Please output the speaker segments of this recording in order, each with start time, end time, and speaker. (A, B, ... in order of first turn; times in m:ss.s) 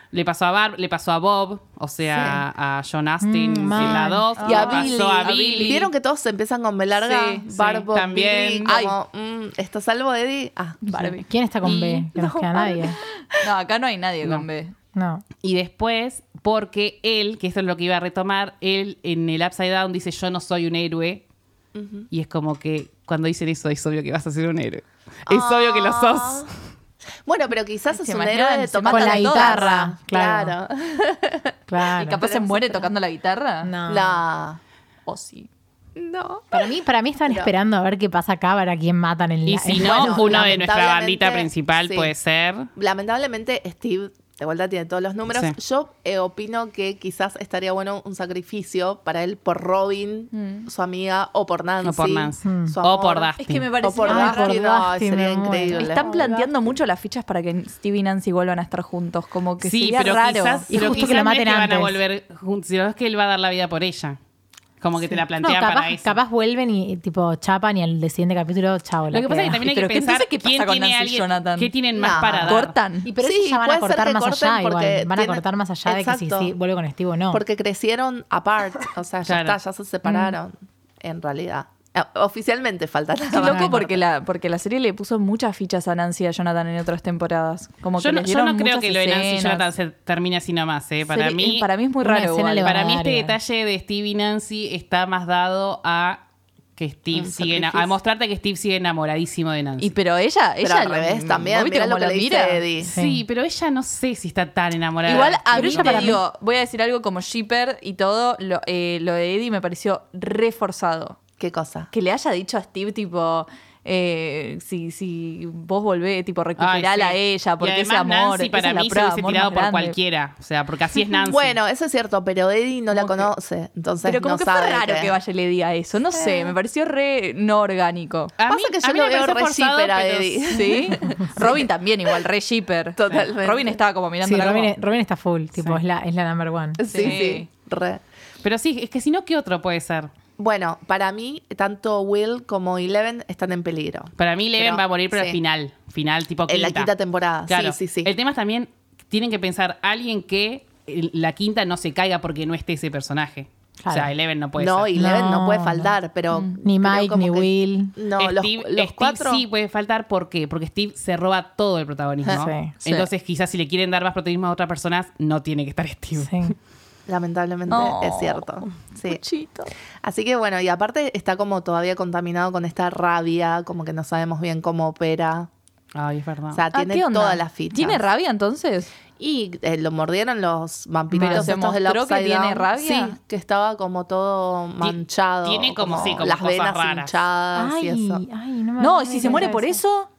0:00.1-0:05.8 A
0:02.0-0:02.4 B
0:03.2-0:04.6 C
0:03.8-0:05.9 D
0:03.9-0:11.1 B
0:07.4-0:08.7 A
0:08.6-0:08.9 D
0:10.8-0:11.2 D
0:10.9-0:13.0 C
0:11.6-0:13.4 B
0:13.4-0:14.7 D
0:14.9-0:15.2 C
0:15.4-0:21.2 A
0:21.7-0:22.1 B
0:22.1-0:26.5 A
0:25.3-0:26.5 B
0:27.2-0:31.6 B
0:27.9-0:29.8 D
0:28.9-0:30.5 C
0:31.7-0:32.2 C
0:32.0-0:33.7 D
0:32.2-0:32.9 B
0:33.6-0:34.2 C
0:33.8-0:34.6 B
0:35.0-0:35.5 D
0:36.0-0:36.7 B
0:36.5-0:40.5 C
0:37.3-0:37.5 B
0:39.4-0:42.7 A
0:39.8-0:42.1 B
0:42.8-0:56.5 B
0:50.3-0:50.7 D
0:51.8-0:53.7 A
0:52.4-0:52.7 C
0:53.4-0:54.6 D
0:54.1-0:55.9 C
0:55.7-1:00.7 D
0:59.6-1:04.2 A
1:00.7-1:01.2 B
1:00.7-1:02.0 C
1:04.8-1:06.2 A
1:05.4-1:09.6 C
1:09.1-1:12.7 A
1:09.6-1:11.7 D
1:11.9-1:12.6 B
1:12.4-1:13.1 D
1:13.0-1:17.4 C
1:13.2-1:16.5 B
1:17.3-1:24.0 B
1:19.2-1:19.6 A
1:23.3-1:29.7 D
1:23.4-1:23.7 C
1:28.0-1:31.7 A
1:31.1-1:32.8 D
1:32.0-1:33.4 C
1:32.6-1:36.2 A
1:36.8-1:39.9 A
1:37.1-1:37.9 B
1:39.8-1:42.6 D
1:40.6-1:42.9 B
1:42.8-1:46.1 A
1:42.8-1:43.2 C
1:45.0-1:51.2 D
1:45.1-1:45.3 B
1:45.5-1:46.2 C
1:51.4-1:51.9 B
1:51.9-2:00.0 D
1:56.6-2:01.6 A
2:01.3-2:05.1 B
2:02.9-2:03.3 D
2:04.0-2:08.3 D
2:08.4-2:10.6 A
2:08.5-2:11.6 B
2:10.5-2:14.7 D
2:13.0-2:13.8 B
2:14.2-2:16.8 C
2:15.6-2:15.8 A
2:16.8-2:18.0 B
2:16.8-2:17.5 D
2:18.4-2:20.1 A
2:20.4-2:25.4 B
2:24.2-2:26.9 A
2:26.5-2:28.1 B
2:27.5-2:35.0 A
2:33.8-2:34.1 C
2:34.6-2:39.4 B
2:34.9-2:35.9 C
2:36.3-2:36.6 D
2:36.6-2:38.0 C
2:38.2-2:46.5 A
2:42.3-2:42.7 C
2:46.2-2:46.5 C
2:47.1-2:49.2 B
2:47.7-2:49.7 D
2:50.0-2:55.5 B
2:55.9-2:56.6 A
2:56.5-2:58.0 B
2:56.7-2:58.9 D
2:59.2-3:08.2 B
3:01.1-3:01.5 C
3:01.2-3:03.2 D
3:04.8-3:07.2 A
3:07.5-3:09.8 C
3:08.8-3:10.1 D
3:09.2-3:09.5 B